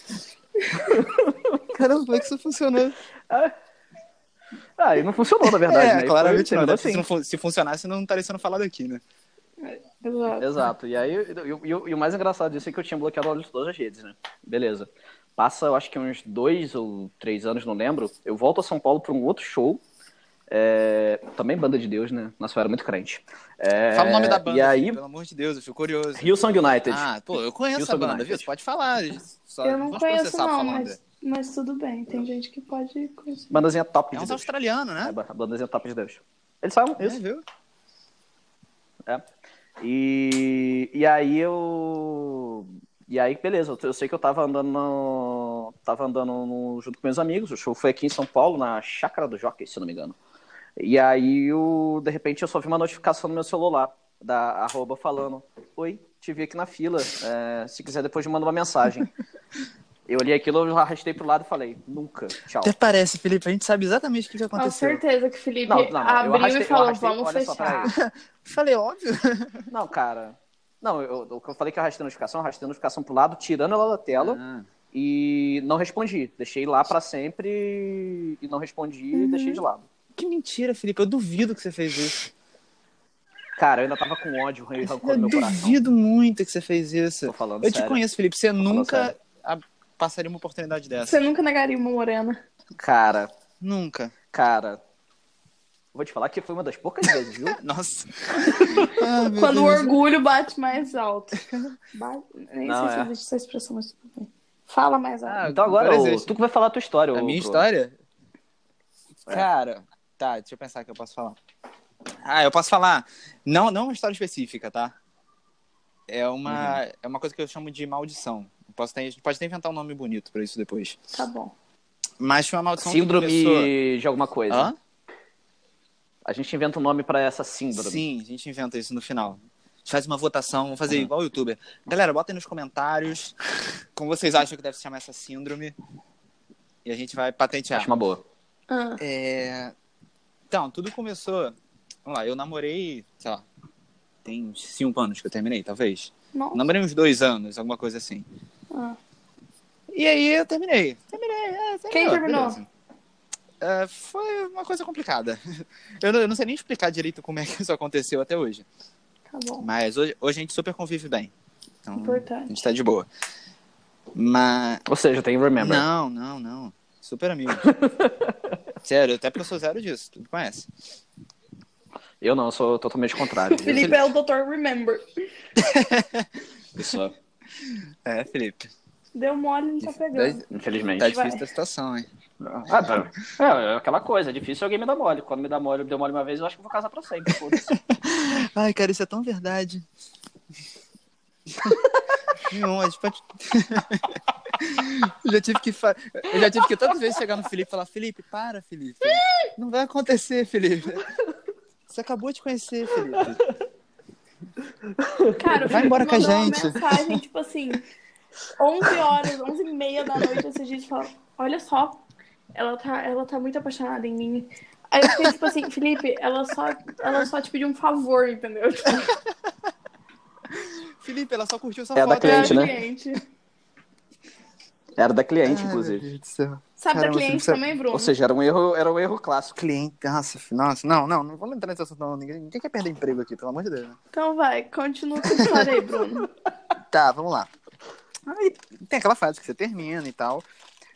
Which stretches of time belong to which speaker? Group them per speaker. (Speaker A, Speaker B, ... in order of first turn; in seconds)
Speaker A: 0.6-1.0, 9.6-10.6, 29.6-33.6, 64.5-67.9, 79.1-79.6, 91.1-92.4, 98.6-105.4, 121.1-121.5, 138.7-139.0, 146.3-146.6, 148.7-149.0, 151.9-152.6, 159.3-159.7, 161.9-162.6, 173.5-175.2, 179.1-180.4, 181.0-181.4, 205.3-207.8, 208.6-212.0, 212.5-219.2, 222.2-223.2, 226.8-228.1, 234.1-236.3
Speaker B: 0.8-1.6, 4.8-7.1, 10.4-19.8, 20.5-25.0, 26.2-27.1, 27.8-28.5, 33.5-34.5, 35.0-37.2, 39.8-50.2, 50.8-59.1, 60.1-62.7, 65.7-67.9, 69.7-74.4, 74.9-79.8, 83.6-85.8, 87.2-88.0, 88.6-89.1, 92.8-93.3, 94.3-94.8, 95.9-97.6, 98.5-98.9, 102.6-103.1, 105.4-107.7, 116.5-116.8, 122.8-124.7, 126.2-128.0, 137.7-138.2, 164.9-165.8, 167.6-168.6, 172.2-174.0, 176.8-177.1, 180.5-181.1, 182.4-187.7, 203.2-203.5, 204.8-205.9, 221.9-222.8, 225.0-226.1, 227.9-229.6
Speaker C: 1.7-3.0, 5.4-9.0, 23.9-31.0, 34.1-35.1, 37.0-37.4, 62.6-65.0, 67.8-69.7, 74.2-74.7, 80.2-82.3, 84.8-91.2, 93.6-94.1, 97.6-100.0, 101.3-101.7, 105.2-106.3, 107.1-107.9, 109.3-111.4, 112.2-114.9, 116.1-121.0, 122.2-123.7, 124.5-124.8, 127.7-133.3, 133.9-135.7, 136.8-137.9, 139.0-139.7, 140.5-143.4, 144.2-148.2, 149.9-152.7, 153.6-158.7, 159.6-161.3, 161.8-163.1, 164.1-164.8, 165.6-167.7, 168.8-170.7, 175.6-176.3, 177.7-178.7, 179.8-180.4, 181.0-182.1, 187.5-189.8, 191.5-191.8, 192.4-201.1, 201.9-203.5, 205.7-207.2, 220.5-222.8, 225.4-227.6, 229.6-233.9, 235.2-235.8, 236.9-237.5, 238.3-240.4